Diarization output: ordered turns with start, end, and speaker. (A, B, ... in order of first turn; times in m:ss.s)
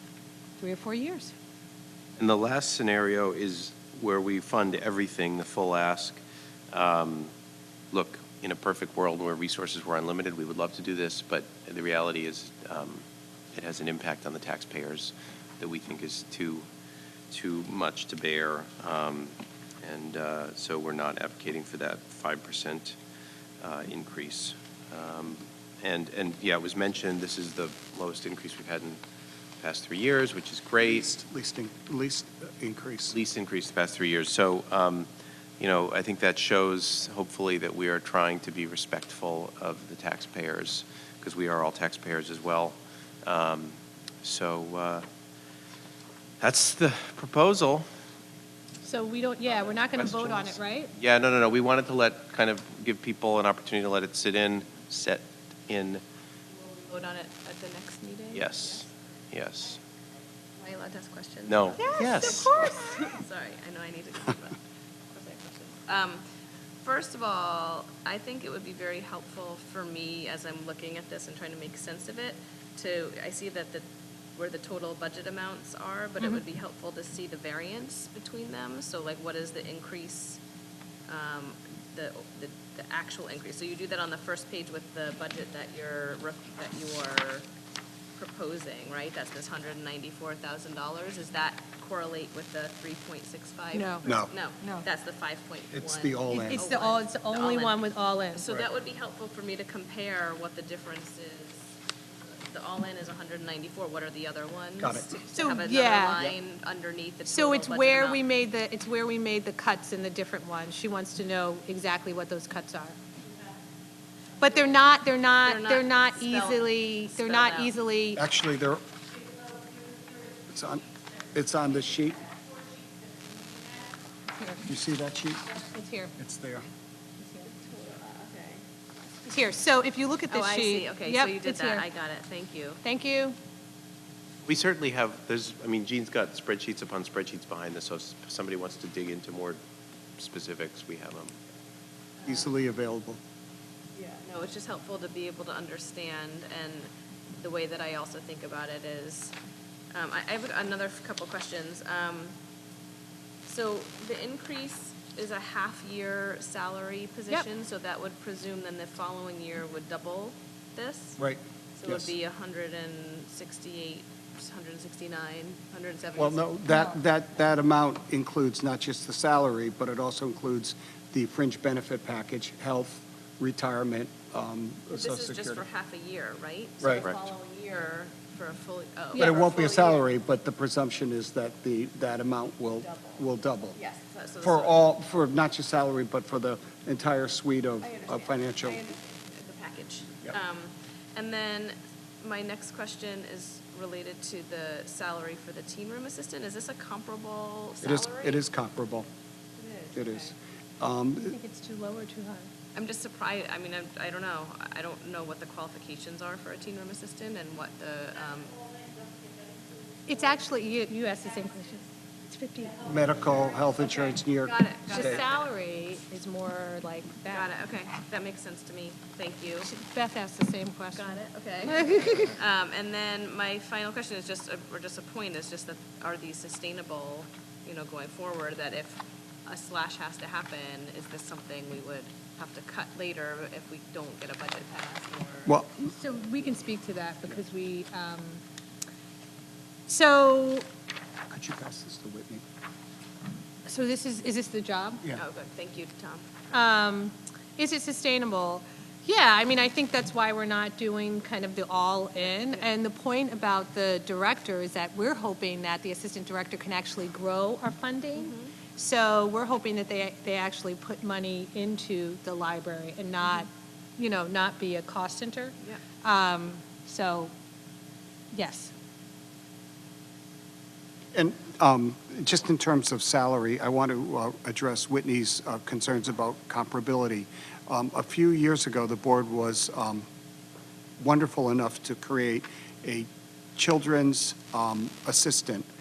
0:00.6-0:01.3 A
0:02.2-0:07.3 B
0:07.9-0:16.6 B
0:17.3-0:23.0 B
0:23.6-0:29.0 B
0:29.6-0:31.1 B
0:30.8-0:33.2 C
0:33.1-0:45.0 B
0:46.4-0:47.8 B
0:48.8-0:50.9 A
0:49.8-0:56.0 B
0:56.7-0:58.9 D
0:58.3-0:59.8 B
1:00.6-1:04.6 D
1:01.5-1:02.7 B
1:01.8-1:03.1 A
1:05.1-1:06.2 D
1:06.8-1:20.4 D
1:21.1-1:27.4 D
1:28.2-1:37.8 D
1:33.7-1:34.8 A
1:34.0-1:34.3 C
1:35.7-1:36.6 C
1:36.3-1:38.4 A
1:38.3-1:48.2 D
1:44.8-1:45.1 C
1:45.3-1:46.2 A
1:47.3-1:53.0 A
1:54.4-1:58.2 A
1:55.4-1:57.7 D
1:58.2-1:58.8 C
2:00.5-2:02.3 C
2:04.3-2:04.6 A
2:04.6-2:05.6 C
2:05.6-2:06.1 A
2:06.2-2:06.6 C
2:07.4-2:08.6 D
2:09.2-2:11.8 A
2:10.3-2:12.8 D
2:12.8-2:13.4 A
2:14.4-2:19.6 B
2:20.2-2:21.4 B
2:22.2-2:22.5 D
2:22.2-2:23.2 C
2:23.9-2:29.3 D
2:29.9-2:32.3 D
2:33.4-2:41.2 D
2:41.2-2:42.1 C
2:41.8-2:46.5 D
2:46.2-2:55.6 C
2:54.9-3:00.1 D
2:56.8-2:57.1 C
2:59.1-2:59.4 A
2:59.1-3:03.8 C
3:02.7-3:03.2 D
3:03.7-3:04.9 D
3:04.4-3:08.8 C
3:07.8-3:18.4 D
3:17.8-3:19.1 C
3:19.6-3:20.3 D
3:19.9-3:21.4 C
3:21.3-3:22.5 A
3:22.7-3:28.6 D
3:30.0-3:32.9 A
3:32.8-3:35.2 C
3:34.4-3:35.4 D
3:34.9-3:37.5 A
3:37.3-3:39.7 D
3:39.6-3:42.3 A
3:40.9-3:55.6 D
3:55.4-3:55.9 C
3:55.9-3:58.4 A
3:59.9-4:00.6 A
4:01.3-4:02.4 C
4:03.6-4:05.0 A
4:05.2-4:06.5 D
4:06.5-4:27.3 A
4:12.2-4:12.7 D
4:18.2-4:18.5 D
4:28.3-4:28.7 A
4:31.1-4:40.0 C
4:41.0-4:45.6 C